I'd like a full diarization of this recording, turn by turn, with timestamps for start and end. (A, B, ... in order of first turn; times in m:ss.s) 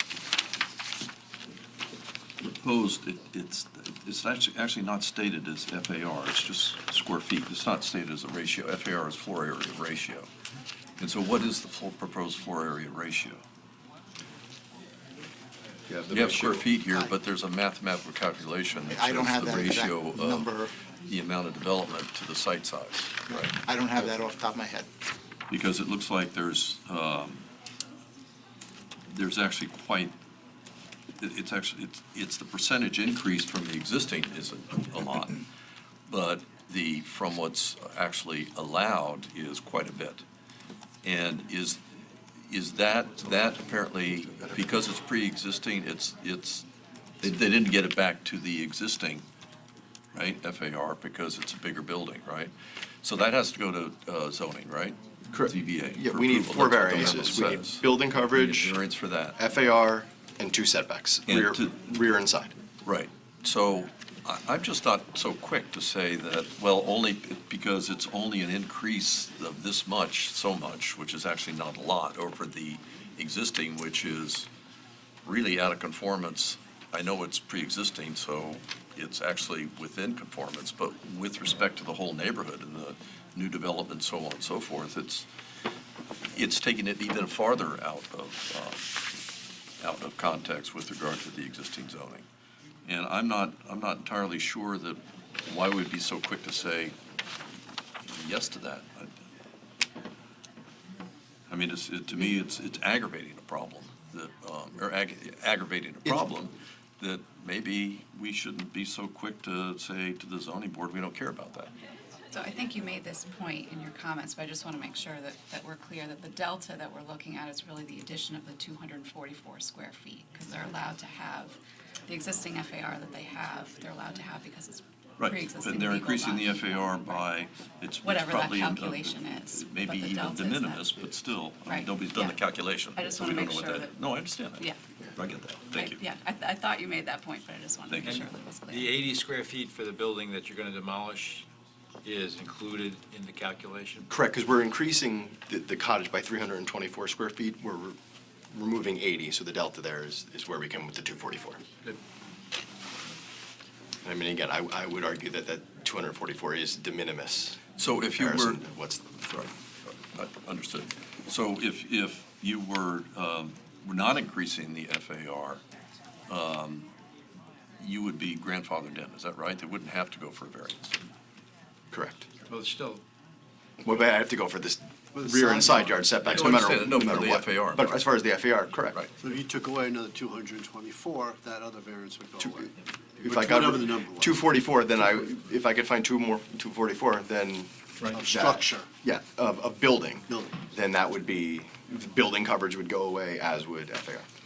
0:02.4-0:10.3 A
0:11.0-0:13.4 A
0:15.9-0:16.6 B
0:16.1-0:20.5 A
0:18.8-0:20.7 C
0:21.0-0:23.5 A
0:23.3-0:24.9 C
0:25.5-0:27.5 A
0:29.1-0:30.1 A
0:31.2-0:35.4 A
0:36.1-0:40.2 A
0:41.0-0:41.8 A
0:42.5-0:46.6 A
0:47.2-0:49.2 A
0:50.1-0:52.5 A
0:53.0-0:59.4 A
0:55.3-0:58.8 B
0:59.4-1:02.5 B
1:01.3-1:01.7 A
1:02.8-1:14.5 A
1:15.2-1:25.2 A
1:26.3-1:28.8 A
1:29.8-1:32.2 A
1:32.9-1:36.9 A
1:38.0-1:39.1 A
1:41.5-1:51.7 A
1:52.3-2:01.6 D
2:02.1-2:07.2 D
2:05.2-2:16.0 A
2:08.0-2:10.9 D
2:11.6-2:12.4 D
2:12.9-2:14.0 D
2:15.7-2:18.9 D
2:17.9-2:18.2 A
2:18.0-2:21.4 E
2:22.0-2:24.0 E
2:24.1-2:28.0 B
2:28.5-2:31.6 B
2:34.0-2:37.6 B
2:37.8-2:38.6 A
2:38.1-2:39.4 B
2:40.1-2:45.6 A
2:46.3-2:46.9 A
2:47.8-2:50.9 A
2:51.9-2:52.3 B
2:52.5-2:53.0 E
2:53.8-2:59.0 B
2:55.2-2:55.9 F
2:56.3-2:58.0 A
2:59.2-3:04.4 F
3:02.4-3:02.7 B
3:03.2-3:14.3 B
3:08.1-3:08.9 F
3:10.3-3:10.6 F